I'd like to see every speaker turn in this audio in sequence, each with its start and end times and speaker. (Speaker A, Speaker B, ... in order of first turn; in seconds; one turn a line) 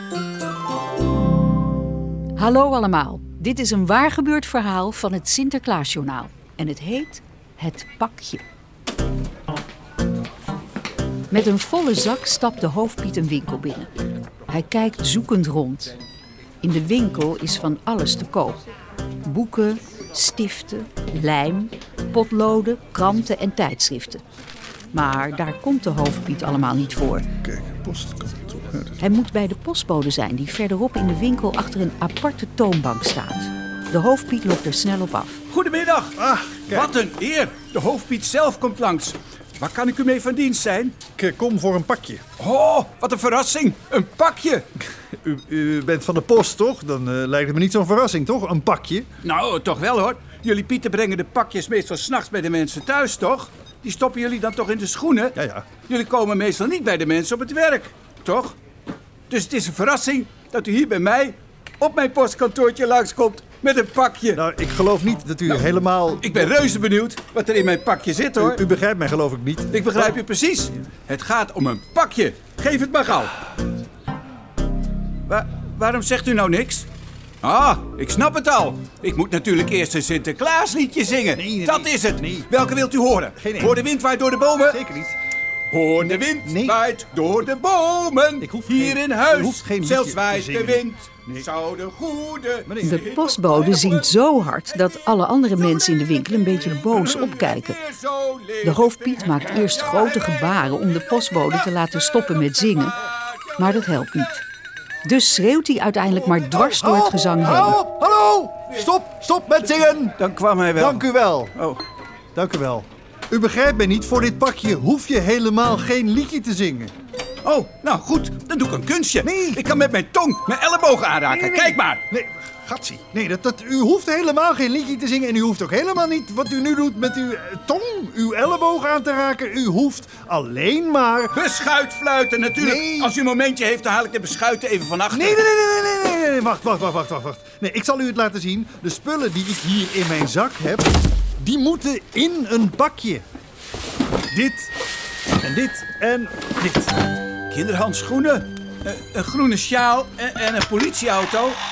Speaker A: 2.4-8.4
Speaker A: 11.3-13.9
Speaker A: 14.5-15.9
Speaker A: 16.6-18.6
Speaker A: 19.2-24.2
Speaker A: 24.9-27.3
Speaker B: 27.4-29.0
Speaker A: 29.0-35.4
Speaker C: 35.5-36.2
Speaker B: 36.1-37.0
Speaker C: 36.7-41.0
Speaker B: 41.2-42.2
Speaker C: 42.4-44.6
Speaker B: 45.1-49.1
Speaker C: 49.2-58.6
Speaker B: 55.4-55.7
Speaker C: 59.3-64.4
Speaker B: 64.3-66.4
Speaker C: 66.2-68.6
Speaker B: 68.4-69.8
Speaker C: 69.7-73.4
Speaker C: 75.3-76.9
Speaker C: 77.4-84.8
Speaker B: 81.3-82.5
Speaker B: 83.4-83.8
Speaker B: 84.7-85.2
Speaker C: 85.7-94.1
Speaker B: 86.4-86.8
Speaker B: 88.4-91.5
Speaker B: 92.7-93.1
Speaker A: 92.8-97.8
Speaker C: 96.6-100.3
Speaker A: 98.6-103.0
Speaker A: 103.6-104.4
Speaker A: 105.0-107.8
Speaker B: 106.4-110.2
Speaker C: 110.2-111.8
Speaker B: 110.8-111.5
Speaker B: 112.3-116.9
Speaker C: 117.4-122.0
Speaker B: 119.2-119.6
Speaker B: 121.3-131.3
Speaker C: 131.3-135.4
Speaker B: 132.6-133.1
Speaker B: 135.1-143.2
Speaker B: 144.3-144.7
Speaker B: 145.4-146.9
Speaker C: 147.5-151.6